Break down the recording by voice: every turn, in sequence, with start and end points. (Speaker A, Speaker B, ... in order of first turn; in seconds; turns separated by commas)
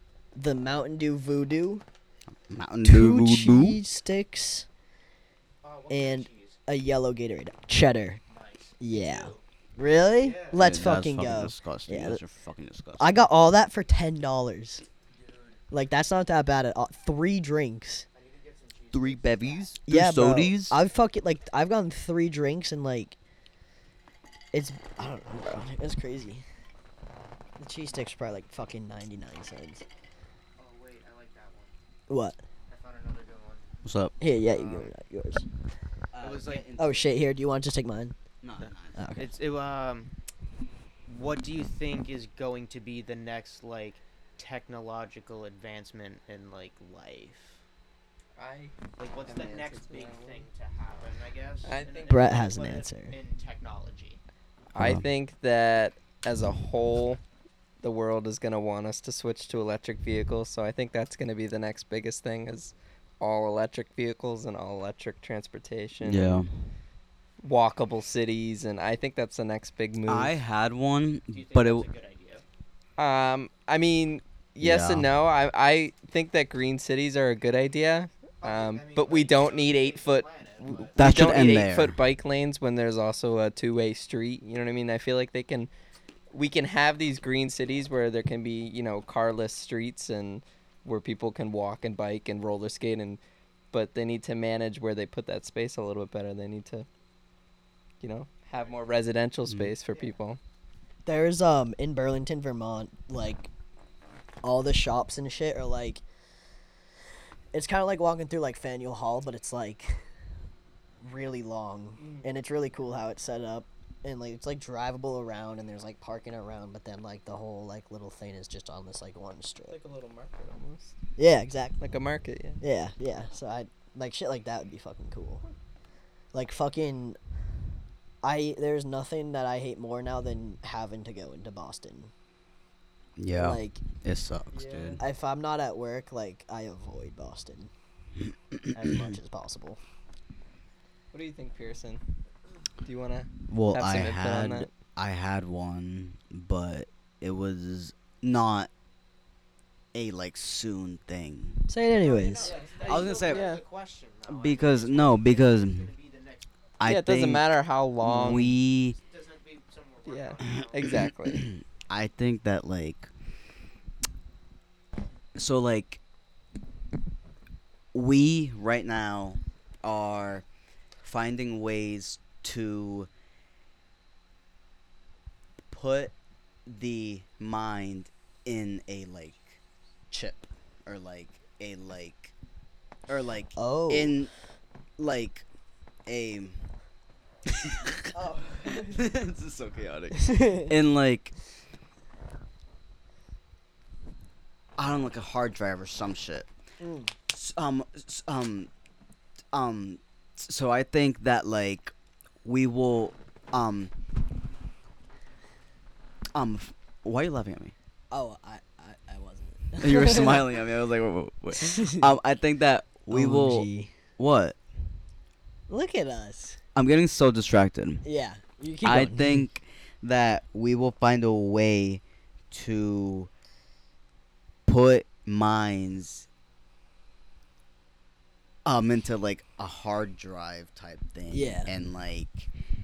Speaker A: 0.3-1.8, Speaker B: 2.5-3.8, Speaker A: 2.8-4.7, Speaker C: 5.6-6.6, Speaker A: 5.9-8.2, Speaker C: 8.3-9.4, Speaker A: 8.8-12.2, Speaker C: 10.1-10.7, Speaker B: 10.5-13.2, Speaker A: 13.0-14.8, Speaker C: 15.2-15.6, Speaker A: 15.7-18.1, Speaker C: 18.1-19.7, Speaker B: 18.9-20.8, Speaker A: 19.9-23.2, Speaker A: 24.5-26.4, Speaker A: 27.6-29.8, Speaker C: 30.6-31.7, Speaker A: 32.1-32.4, Speaker C: 32.7-33.7, Speaker B: 33.8-34.1, Speaker A: 34.2-35.5, Speaker C: 34.4-34.9, Speaker B: 36.1-37.1, Speaker C: 36.2-36.7, Speaker A: 36.7-38.1, Speaker B: 38.4-39.0, Speaker C: 38.6-40.1, Speaker A: 39.0-39.3, Speaker C: 41.1-47.6, Speaker D: 48.4-50.5, Speaker C: 49.0-54.2, Speaker D: 51.6-52.3, Speaker A: 52.1-53.1, Speaker D: 54.7-57.2, Speaker B: 54.7-55.0, Speaker D: 57.8-66.4, Speaker B: 66.0-66.7, Speaker D: 67.4-70.3, Speaker B: 70.0-71.8, Speaker C: 71.3-72.4, Speaker D: 73.0-85.7, Speaker B: 74.6-75.1, Speaker C: 78.4-81.0, Speaker B: 81.0-82.0, Speaker D: 86.3-93.2, Speaker D: 93.7-96.9, Speaker D: 98.0-100.4, Speaker C: 98.5-98.9, Speaker B: 99.5-99.7, Speaker C: 99.9-100.2, Speaker A: 101.0-103.5, Speaker A: 104.4-106.0, Speaker A: 107.5-110.0, Speaker A: 111.0-119.8, Speaker D: 112.0-112.3, Speaker D: 119.7-121.0, Speaker A: 121.2-121.8, Speaker D: 121.8-122.6, Speaker A: 122.6-125.4, Speaker A: 126.3-127.2, Speaker A: 128.2-132.1, Speaker B: 133.2-135.0, Speaker A: 133.3-133.8, Speaker D: 134.5-135.0, Speaker A: 135.0-137.7, Speaker B: 138.2-139.2, Speaker A: 138.7-139.8, Speaker D: 141.1-142.0, Speaker D: 142.8-144.7, Speaker B: 143.5-148.7, Speaker B: 149.9-151.6, Speaker A: 151.7-152.6, Speaker C: 151.9-156.5, Speaker D: 152.4-153.6, Speaker B: 152.8-153.5, Speaker B: 154.3-155.9, Speaker B: 156.8-159.0, Speaker D: 156.8-158.6, Speaker C: 158.9-160.9, Speaker D: 160.1-161.4, Speaker B: 160.5-163.1, Speaker B: 165.3-166.0, Speaker B: 167.9-170.4, Speaker B: 171.0-173.1, Speaker B: 175.7-176.1, Speaker B: 176.7-179.6, Speaker B: 180.1-182.3, Speaker B: 183.1-184.3, Speaker A: 183.6-184.2, Speaker B: 185.0-185.4, Speaker B: 186.1-186.7, Speaker B: 187.4-188.0, Speaker A: 188.1-189.0, Speaker B: 188.7-191.3, Speaker A: 190.2-190.7, Speaker B: 194.8-196.5, Speaker A: 196.8-197.1, Speaker B: 197.3-198.7, Speaker B: 199.5-201.9, Speaker B: 202.4-203.9, Speaker B: 206.3-207.7, Speaker A: 208.1-210.5, Speaker B: 209.8-214.6, Speaker A: 211.6-212.0, Speaker A: 213.1-213.9, Speaker A: 215.7-216.6, Speaker B: 216.7-218.0, Speaker A: 218.0-219.4, Speaker B: 218.8-223.3, Speaker B: 224.7-226.3, Speaker B: 228.6-232.5, Speaker A: 231.3-231.7